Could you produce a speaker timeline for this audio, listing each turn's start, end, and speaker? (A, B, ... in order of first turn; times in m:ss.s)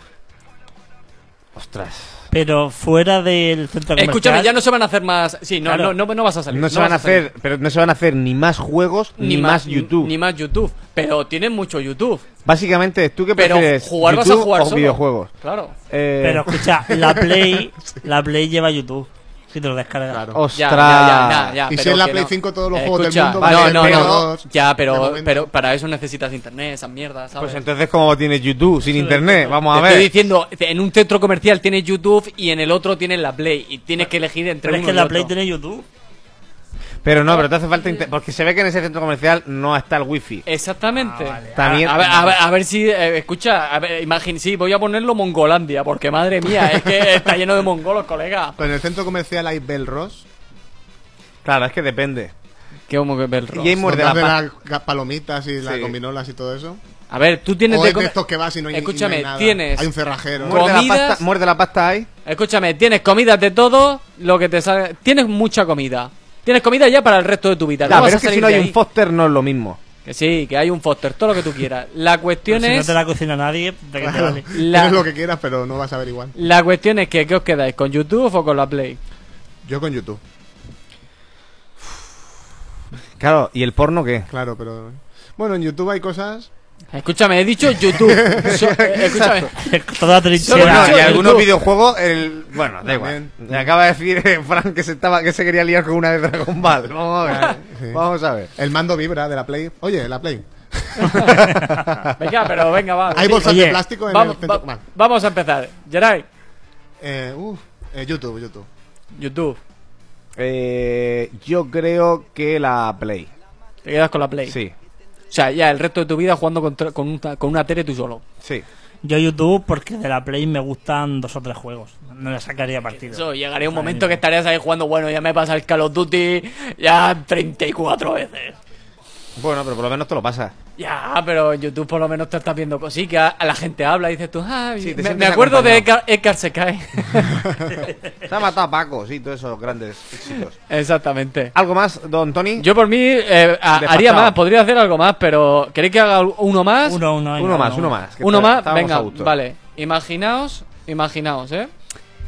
0:01.6-0:02.2 A
0:02.3-0:04.5 B
0:04.0-0:07.2 C
0:05.7-0:06.0 B
0:06.5-0:10.1 A
0:09.2-0:12.3 C
0:12.4-0:15.3 A
0:13.4-0:15.8 C
0:15.9-0:16.7 A
0:16.2-0:20.3 B
0:16.9-0:18.0 D
0:20.1-0:20.4 D
0:20.3-0:21.6 A
0:20.5-0:27.6 C
0:21.7-0:25.5 D
0:23.4-0:24.3 A
0:27.4-0:30.1 A
0:28.9-0:29.5 B
0:29.5-0:35.3 C
0:34.6-0:35.9 B
0:37.0-0:40.4 A
0:40.5-0:48.6 C
0:41.0-0:41.6 B
0:41.6-0:42.4 A
0:48.6-0:50.3 D
0:51.4-0:52.3 A
0:52.9-0:53.8 C
0:53.5-0:54.4 A
0:53.8-0:56.8 D
0:55.6-0:56.0 A
0:57.1-0:58.2 C
0:57.7-1:00.7 D
0:58.7-0:59.9 C
1:00.4-1:02.1 A
1:00.5-1:01.2 C
1:02.2-1:08.8 C
1:07.9-1:09.8 A
1:10.0-1:13.0 C
1:12.5-1:14.5 B
1:14.0-1:16.3 D
1:14.5-1:15.0 C
1:16.4-1:19.0 C
1:19.6-1:20.2 D
1:23.2-1:24.3 A
1:24.3-1:26.5 D
1:26.9-1:29.5 C
1:28.0-1:28.5 D
1:28.3-1:29.5 A
1:29.6-1:31.4 B
1:30.4-1:31.6 C
1:30.5-1:38.5 A
1:32.8-1:33.6 D
1:37.2-1:38.0 D
1:38.6-1:41.9 D
1:42.2-1:46.3 C
1:43.1-1:44.8 D
1:43.4-1:43.8 B
1:47.0-1:48.7 D
1:49.2-1:49.6 C
1:50.4-1:53.3 A
1:53.8-1:54.6 C
1:54.5-1:54.7 A
1:55.3-1:58.2 C
1:59.0-2:04.2 B
2:03.0-2:08.6 C
2:09.4-2:10.5 A
2:10.8-2:17.9 C
2:14.8-2:15.9 A
2:18.2-2:20.5 A
2:20.7-2:21.5 C
2:21.5-2:22.7 A
2:22.6-2:27.0 C
2:23.7-2:24.4 A
2:26.8-2:28.0 B
2:27.4-2:29.3 A
2:28.2-2:31.7 C